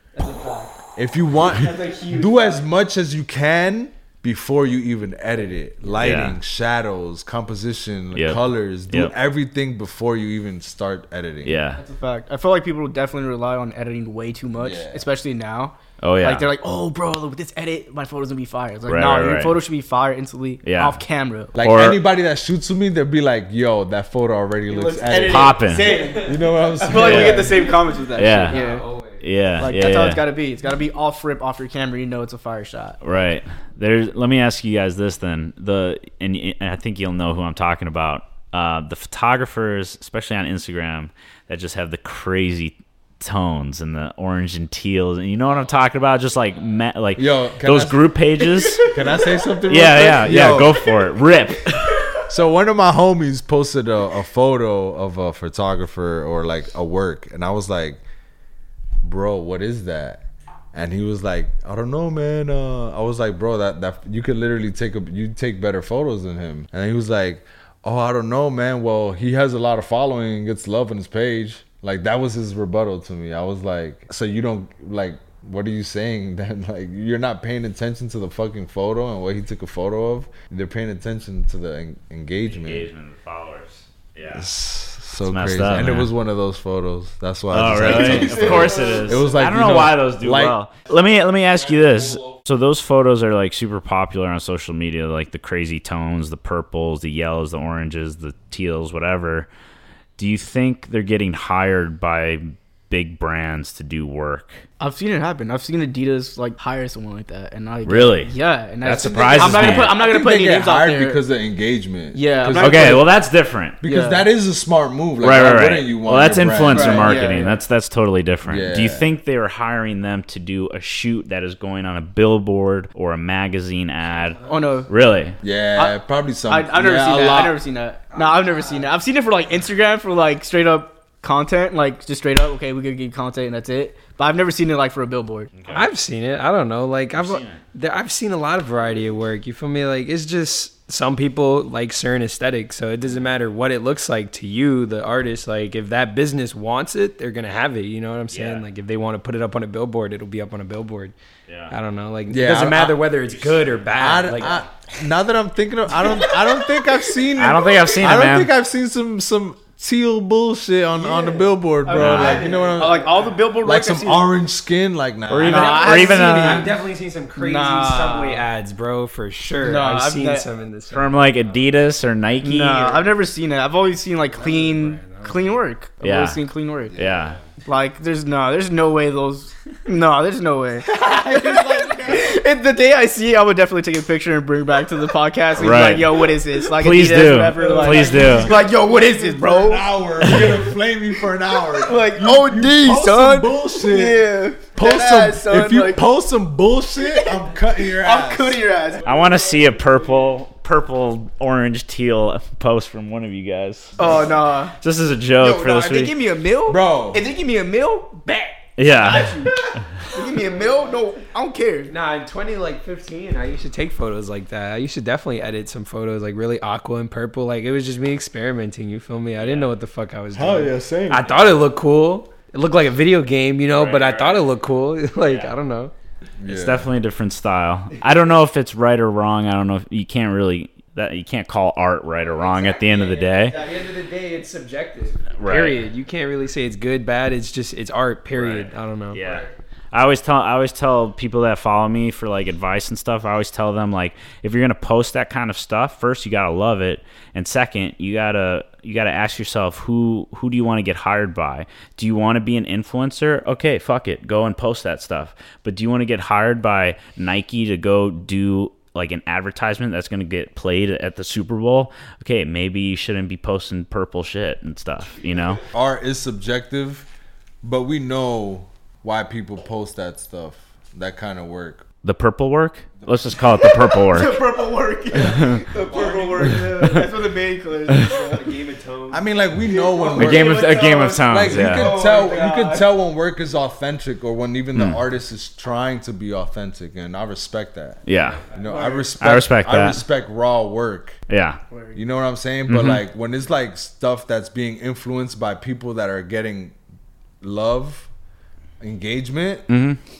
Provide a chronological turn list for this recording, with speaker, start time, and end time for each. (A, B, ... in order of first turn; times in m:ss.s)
0:00.2-0:00.7 A
0:01.0-0:11.6 B
0:01.5-0:02.6 A
0:06.0-0:06.4 C
0:08.2-0:09.1 C
0:11.4-0:11.8 C
0:11.8-0:21.6 A
0:14.6-0:15.0 B
0:16.0-0:16.5 C
0:18.9-0:19.6 C
0:20.6-0:21.0 C
0:21.6-0:27.6 B
0:21.6-0:22.0 C
0:24.7-0:28.9 A
0:25.2-0:26.0 C
0:25.8-0:29.3 D
0:27.0-0:27.5 C
0:28.2-0:28.6 C
0:29.2-0:30.3 C
0:29.6-0:33.0 A
0:33.0-0:49.0 C
0:47.2-0:48.0 B
0:48.8-0:50.9 B
0:49.7-0:52.1 C
0:52.3-0:58.0 B
0:59.0-1:22.9 B
1:22.5-1:24.5 C
1:24.3-1:30.6 B
1:25.2-1:26.1 C
1:27.5-1:39.5 C
1:27.8-1:29.2 A
1:40.2-1:44.6 C
1:44.8-1:51.2 A
1:47.8-1:48.3 C
1:48.8-1:50.0 C
1:49.4-1:53.1 B
1:52.1-1:53.1 A
1:52.6-1:53.8 C
1:53.8-1:57.4 B
1:53.8-1:54.3 A
1:55.2-2:05.4 C
1:56.7-1:57.6 A
1:58.4-1:59.1 B
2:04.2-2:04.8 D
2:04.4-2:04.9 A
2:05.4-2:07.6 B
2:05.8-2:15.5 A
2:15.6-2:15.9 C
2:15.7-2:31.1 D
2:17.2-2:17.6 C
2:28.3-2:28.6 C
2:31.5-2:31.8 C
2:31.7-2:34.7 D
2:32.3-2:33.1 B
2:33.3-2:33.7 C
2:34.0-2:46.1 B
2:37.3-2:38.5 C
2:41.0-2:43.5 D
2:41.2-2:44.3 A
2:42.0-2:42.4 C
2:45.3-2:46.7 C
2:45.4-2:46.8 A
2:45.4-2:51.7 D
2:47.4-2:48.5 A
2:49.6-2:50.5 A
2:50.9-2:53.0 C
2:52.4-2:57.0 A
2:54.3-2:55.6 D
2:56.0-2:56.4 C
2:56.9-2:57.4 C
2:57.0-2:57.5 D
2:57.6-3:10.7 A
3:00.9-3:02.3 B
3:05.6-3:08.5 C
3:07.6-3:18.6 B
3:07.8-3:08.5 D
3:11.7-3:16.0 A
3:17.0-3:19.2 A
3:19.0-3:24.3 C
3:24.0-3:24.8 A
3:24.8-3:26.2 C
3:25.4-3:28.4 A
3:26.7-3:27.2 B
3:28.4-3:29.6 D
3:28.8-3:29.5 C
3:29.0-3:31.9 A
3:30.3-3:31.0 D
3:31.9-3:45.9 D
3:39.4-3:39.7 C
3:40.3-3:41.4 B
3:43.8-3:44.5 C
3:45.2-3:45.5 C
3:46.4-3:46.9 B
3:46.4-3:53.6 C
3:52.2-3:59.4 D
3:55.4-3:55.8 C
3:58.4-4:25.6 C
4:25.7-4:27.1 B
4:27.6-4:31.8 B
4:32.0-4:34.4 C
4:33.5-4:38.5 A
4:35.1-4:35.6 C
4:35.4-4:36.7 D
4:36.6-4:37.1 C
4:37.9-4:39.2 D
4:39.1-4:40.8 B
4:39.6-4:42.9 A
4:40.2-4:42.0 C
4:41.3-4:51.2 B
4:44.8-4:45.0 C
4:48.1-4:48.4 C
4:48.2-4:49.0 D
4:48.6-4:49.2 A
4:49.2-4:50.0 C
4:51.3-4:51.6 C
4:51.7-4:52.0 A
4:52.0-4:56.8 B
4:52.7-4:53.0 C
4:57.4-4:58.1 B
4:58.8-4:59.7 B
4:59.7-5:00.0 C